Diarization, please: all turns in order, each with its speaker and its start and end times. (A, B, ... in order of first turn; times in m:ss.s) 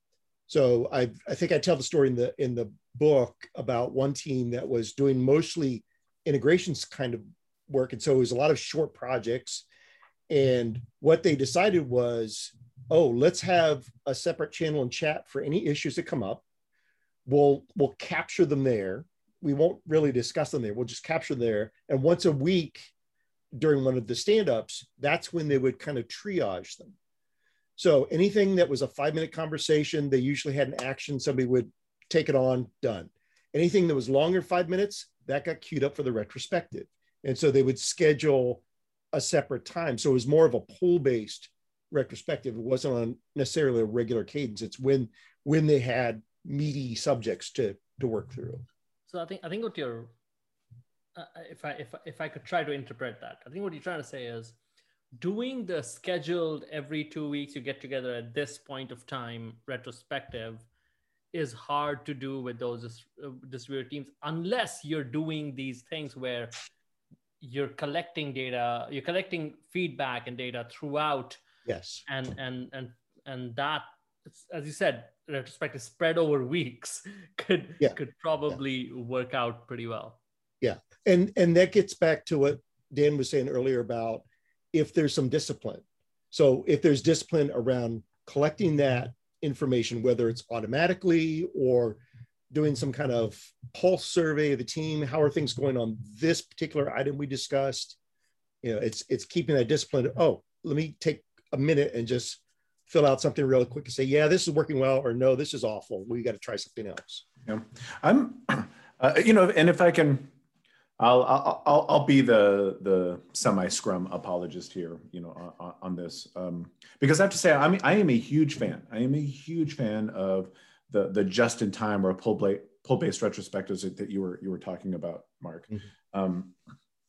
0:00.5-0:09.7 A
0:10.3-0:16.4 A
0:17.2-0:22.9 A
0:23.5-0:27.0 A
0:27.8-0:48.6 A
0:49.1-0:50.1 B
0:51.1-0:54.6 B
0:55.2-1:00.7 B
1:01.3-1:06.5 B
1:07.4-1:11.4 B
1:11.6-1:12.0 A
1:12.1-1:20.2 B
1:20.6-1:32.0 A
1:32.5-1:38.0 A
1:38.6-1:47.2 A
1:47.4-1:50.3 C
1:51.0-2:06.5 C